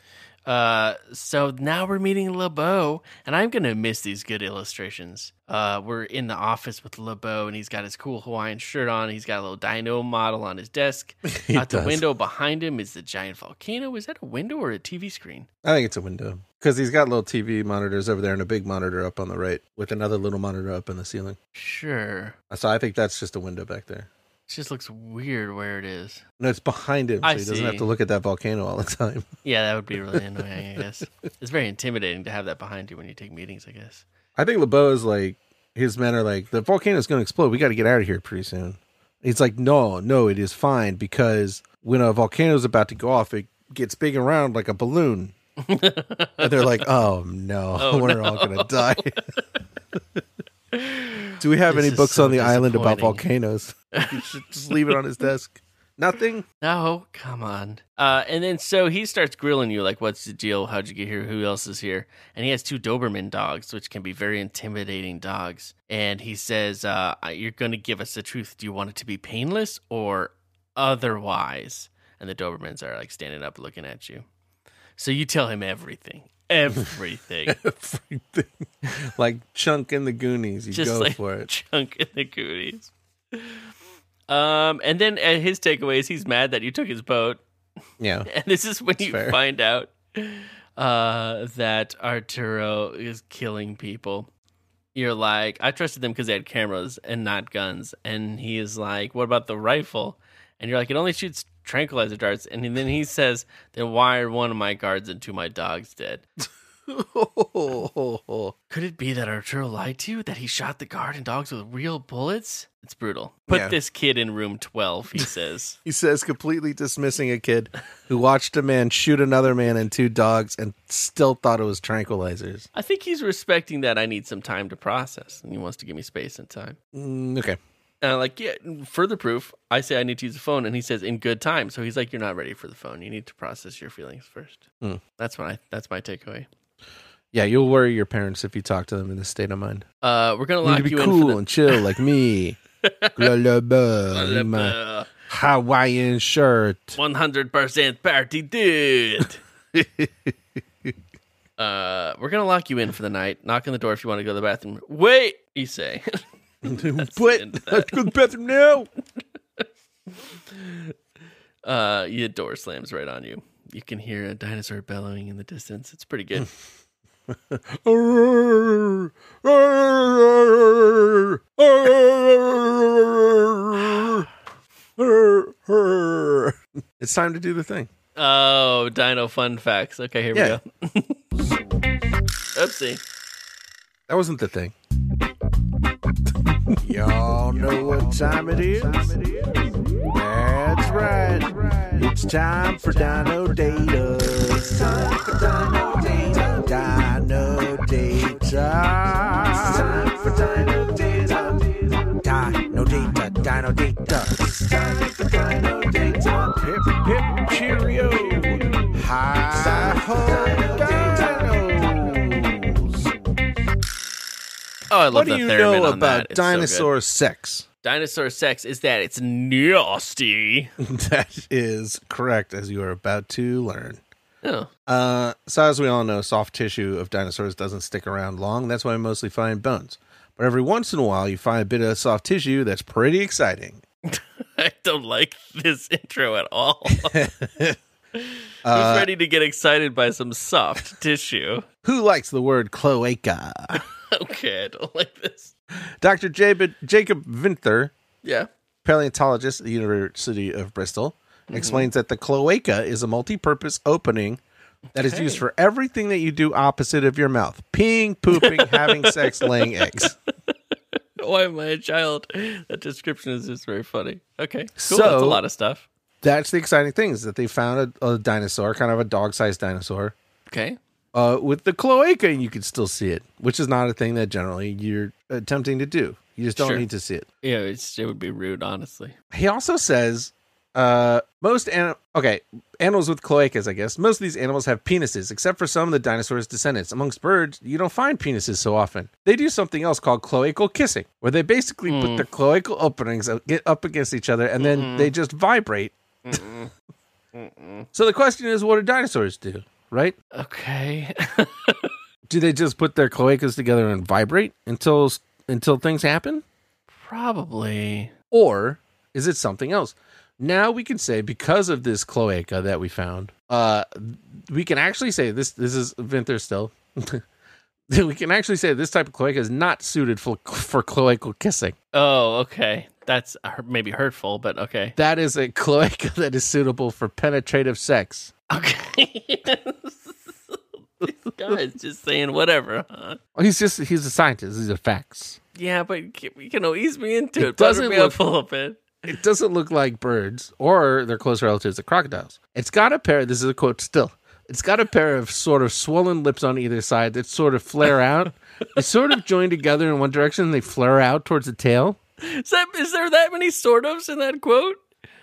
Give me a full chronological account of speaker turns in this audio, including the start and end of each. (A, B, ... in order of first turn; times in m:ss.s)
0:00.5-0:15.5 A
0:11.3-0:12.0 B
0:15.6-0:21.4 B
0:21.5-0:22.4 A
0:22.5-0:24.1 B
0:24.5-0:26.2 A
0:26.4-0:29.3 B
0:27.2-0:27.9 A
0:29.4-0:34.0 A
0:34.4-0:45.3 B
0:45.6-0:46.8 A
0:46.4-0:49.2 B
0:47.8-0:49.4 A
0:50.7-0:53.2 A
0:51.4-0:56.5 B
0:53.9-0:54.2 A
0:56.6-1:14.2 A
1:15.0-1:17.6 A
1:17.5-1:21.5 B
1:20.7-1:23.6 A
1:24.3-1:27.4 A
1:28.0-1:28.3 B
1:28.3-1:34.3 A
1:29.0-1:29.4 B
1:35.0-1:46.2 A
1:46.9-1:48.5 B
1:48.7-1:55.8 A
1:53.5-1:53.8 B
1:55.8-2:02.7 B
2:02.7-2:06.8 A
2:06.9-2:07.6 B
2:08.0-2:14.6 A
2:15.2-2:16.5 A
2:17.3-2:19.8 B
2:20.0-2:21.8 A
2:20.6-2:22.6 B
2:22.8-2:23.3 A
2:23.2-2:27.0 B
2:24.1-2:25.1 A
2:27.0-2:29.4 A
2:29.7-2:30.3 B
2:31.6-2:38.1 A
2:36.6-2:38.9 B
2:40.5-2:40.9 A
2:41.6-2:46.5 A
2:47.3-2:54.3 B
2:55.0-2:57.9 B
2:58.2-3:01.2 A
3:00.3-3:00.6 B
3:02.6-3:03.0 A
3:04.1-3:04.8 B
3:06.4-3:33.1 B
3:34.9-3:36.9 A
3:35.1-3:37.7 B
3:37.8-3:40.7 A
3:40.8-3:44.0 B
3:44.4-3:44.7 A
3:44.9-3:53.8 B
3:54.1-3:57.2 A
3:56.9-3:57.8 B
3:58.2-4:01.7 A
3:58.6-3:59.1 B
4:01.8-4:03.8 B
4:03.7-4:05.5 A
4:06.0-4:07.9 B
4:08.2-4:08.5 A
4:08.8-4:14.4 B
4:11.5-4:11.9 A
4:14.9-4:15.4 A
4:15.0-4:20.2 B
4:18.3-4:20.1 A
4:21.2-4:25.9 A
4:24.8-4:25.4 B
4:26.2-4:30.2 B
4:30.5-4:30.8 A
4:31.1-4:37.3 B
4:36.6-4:36.8 A
4:37.4-4:39.2 A
4:39.3-4:56.4 B
4:51.9-4:52.3 A
4:54.6-4:55.1 A
4:56.2-4:56.7 A
4:57.3-4:57.9 A
4:57.9-5:00.2 B
5:00.3-5:01.9 A
5:02.3-5:06.4 B
5:06.9-5:08.1 A
5:08.3-5:17.2 B
5:17.9-5:21.8 B
5:21.9-5:25.0 A
5:25.0-5:28.3 B
5:28.5-5:33.2 A
5:33.4-5:35.4 B
5:35.6-5:38.9 A
5:37.4-5:38.2 B
5:39.0-5:52.0 B
5:52.2-5:54.8 A